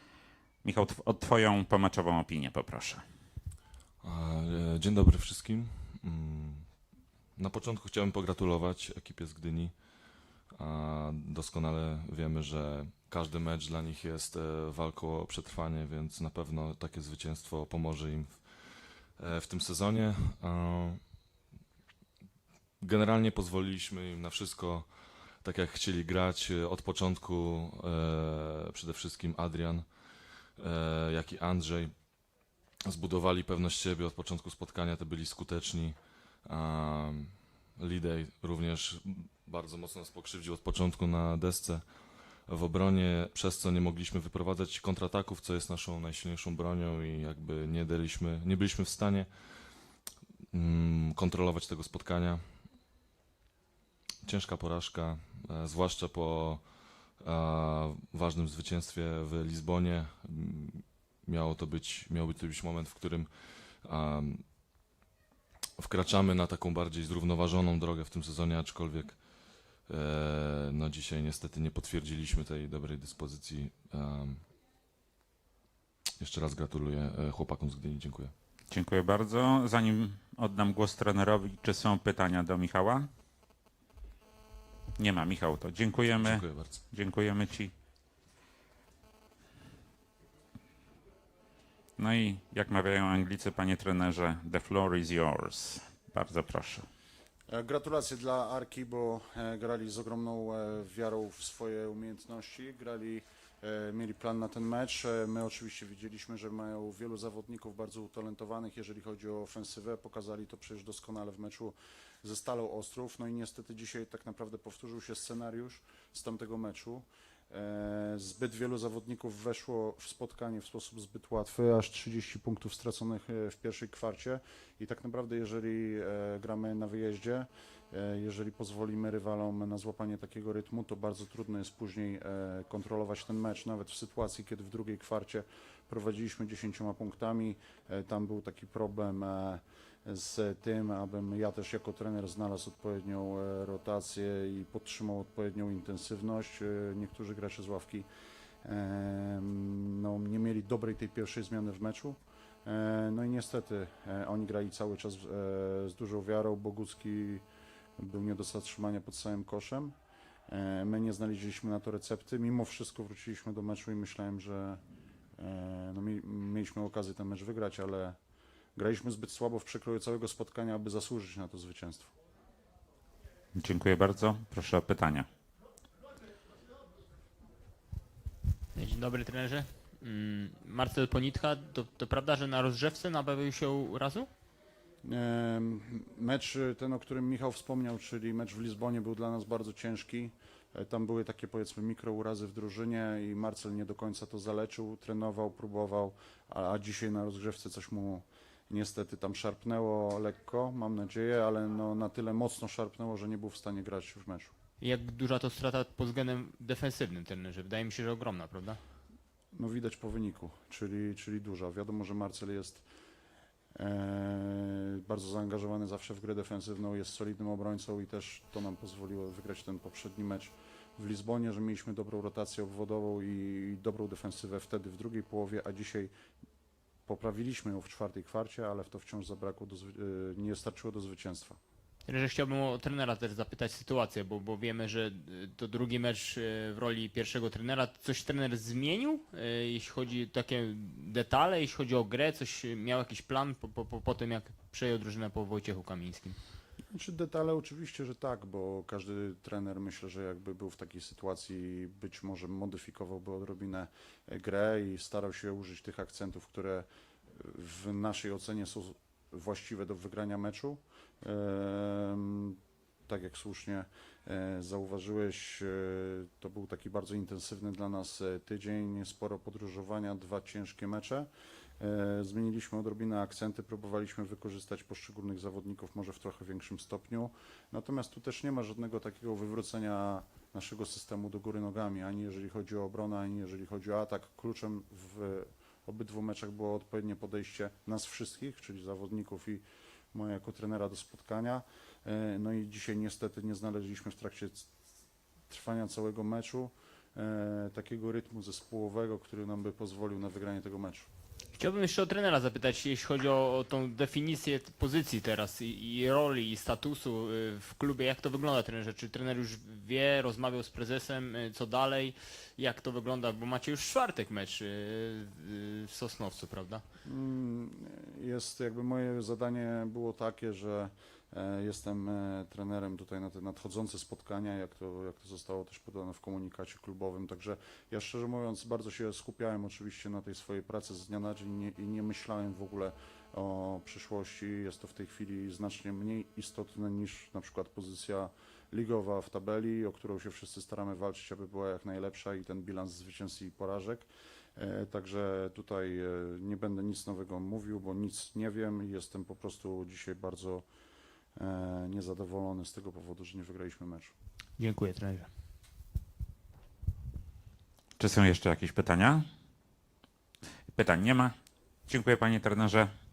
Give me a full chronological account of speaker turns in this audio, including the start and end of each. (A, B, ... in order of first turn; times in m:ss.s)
0:00.6-0:03.0 A
0:04.0-0:21.2 B
0:22.8-0:50.0 B
0:50.5-0:52.8 B
0:54.2-1:04.5 B
1:05.8-1:14.5 B
1:16.2-1:18.3 B
1:18.7-1:23.1 A
1:25.0-1:27.7 A
1:26.1-1:26.8 B
1:32.0-1:36.9 A
1:37.5-2:28.1 C
2:28.6-2:37.4 C
2:38.0-2:40.0 C
2:40.5-2:44.8 C
2:45.4-2:48.2 C
2:48.7-2:52.1 C
2:53.5-2:55.3 A
2:58.7-3:04.3 D
3:05.0-3:24.5 C
3:24.8-3:28.8 D
3:29.5-3:32.9 C
3:33.7-3:46.1 C
3:47.0-3:51.6 C
3:52.0-4:06.4 D
4:06.9-4:54.7 C
4:55.5-5:01.1 C
5:01.5-5:16.8 D
5:17.0-5:50.7 C
5:51.4-5:54.1 C
5:54.6-5:55.3 D
5:58.0-5:59.3 A
6:00.7-6:01.3 A
6:01.9-6:02.9 A